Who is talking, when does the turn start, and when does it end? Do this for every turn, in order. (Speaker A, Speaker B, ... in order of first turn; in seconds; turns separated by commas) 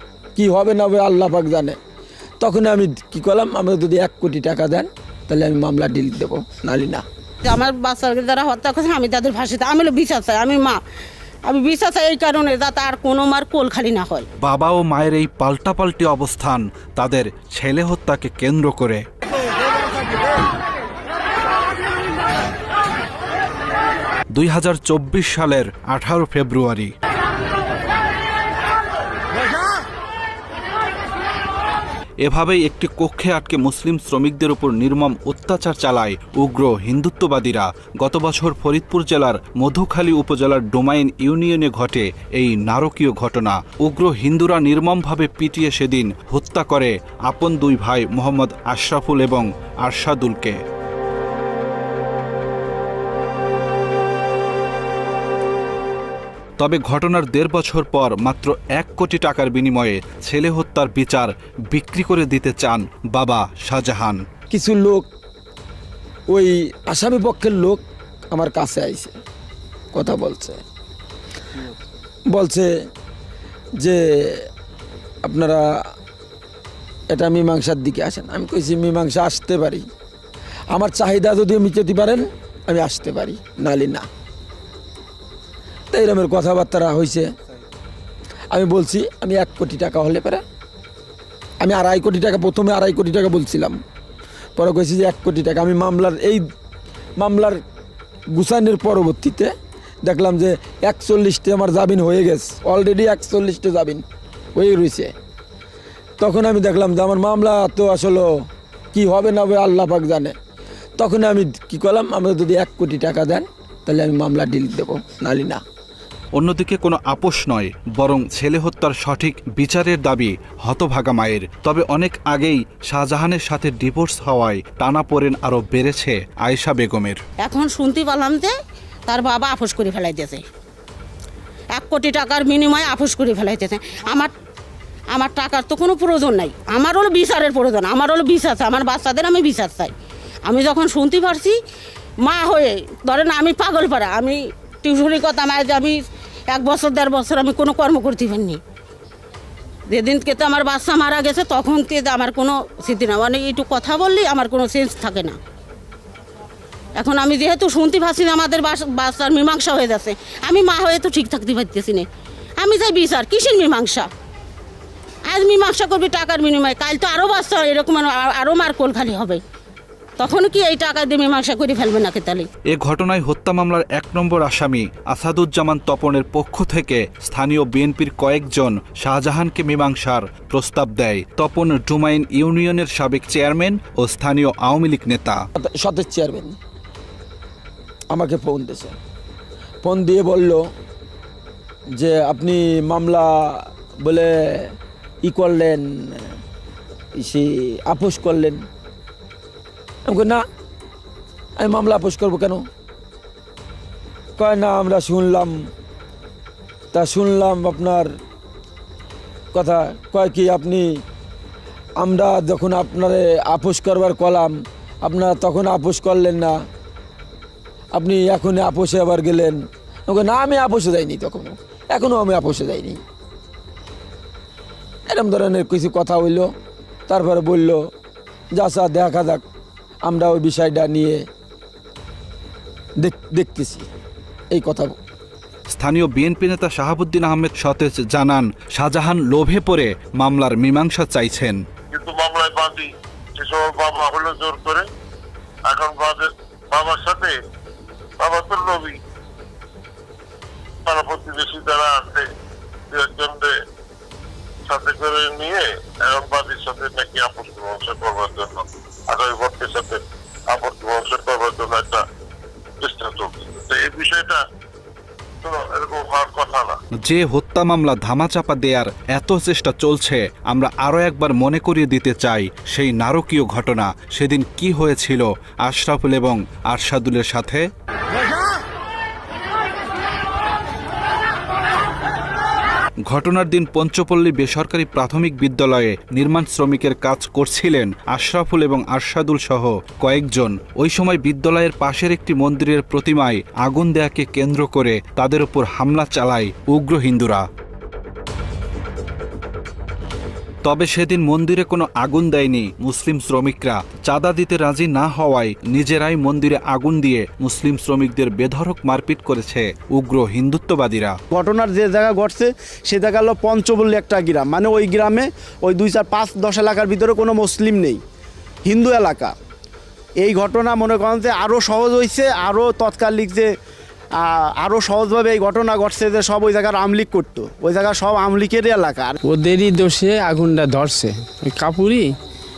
Speaker A: 0.4-1.8, Speaker A: 2.4-7.0, Speaker B: 7.4-10.8, Speaker B: 11.5-14.3, Speaker C: 14.4-19.0, Speaker C: 24.4-26.9, Speaker C: 32.2-50.6, Speaker C: 56.6-64.2, Speaker A: 64.5-65.1, Speaker A: 66.3-69.2, Speaker A: 69.9-70.6, Speaker A: 72.3-72.7, Speaker A: 73.8-74.5, Speaker A: 75.3-75.6, Speaker A: 77.1-79.9, Speaker A: 80.7-84.1, Speaker A: 85.9-87.3, Speaker A: 88.5-90.4, Speaker A: 91.6-93.8, Speaker A: 94.6-96.4, Speaker A: 97.2-97.6, Speaker A: 98.3-99.5, Speaker A: 100.1-104.0, Speaker A: 104.5-105.1, Speaker A: 106.2-108.3, Speaker A: 108.9-110.3, Speaker A: 111.0-115.6, Speaker C: 116.3-127.2, Speaker B: 127.4-128.5, Speaker B: 129.1-130.4, Speaker B: 131.7-134.3, Speaker B: 135.1-139.9, Speaker B: 140.5-141.6, Speaker B: 142.2-146.0, Speaker B: 146.5-148.6, Speaker B: 149.9-155.4, Speaker B: 157.0-162.1, Speaker B: 162.6-164.1, Speaker B: 165.3-169.4, Speaker B: 170.2-172.5, Speaker C: 172.7-185.4, Speaker A: 185.6-186.6, Speaker A: 188.1-189.0, Speaker A: 189.8-190.6, Speaker A: 192.0-194.7, Speaker A: 195.2-196.3, Speaker A: 197.2-198.7, Speaker A: 200.1-200.4, Speaker A: 201.6-202.7, Speaker A: 204.4-205.6, Speaker A: 206.9-208.1, Speaker A: 209.5-210.9, Speaker A: 212.0-216.6, Speaker A: 217.9-223.0, Speaker A: 225.1-226.5, Speaker A: 227.1-227.8, Speaker A: 228.6-229.4, Speaker A: 230.1-231.2, Speaker A: 233.0-233.9, Speaker A: 234.5-235.0, Speaker C: 235.7-241.6, Speaker D: 241.9-244.8, Speaker D: 245.7-247.3, Speaker D: 248.2-248.9, Speaker D: 250.9-252.2, Speaker D: 252.9-253.5, Speaker D: 254.7-262.0, Speaker D: 262.8-264.4, Speaker D: 265.4-266.8, Speaker C: 267.0-277.6, Speaker C: 283.1-297.4, Speaker C: 300.6-311.2, Speaker E: 311.3-318.0, Speaker E: 318.7-319.4, Speaker E: 320.2-323.5, Speaker E: 324.2-329.1, Speaker F: 329.3-331.1, Speaker F: 331.6-332.0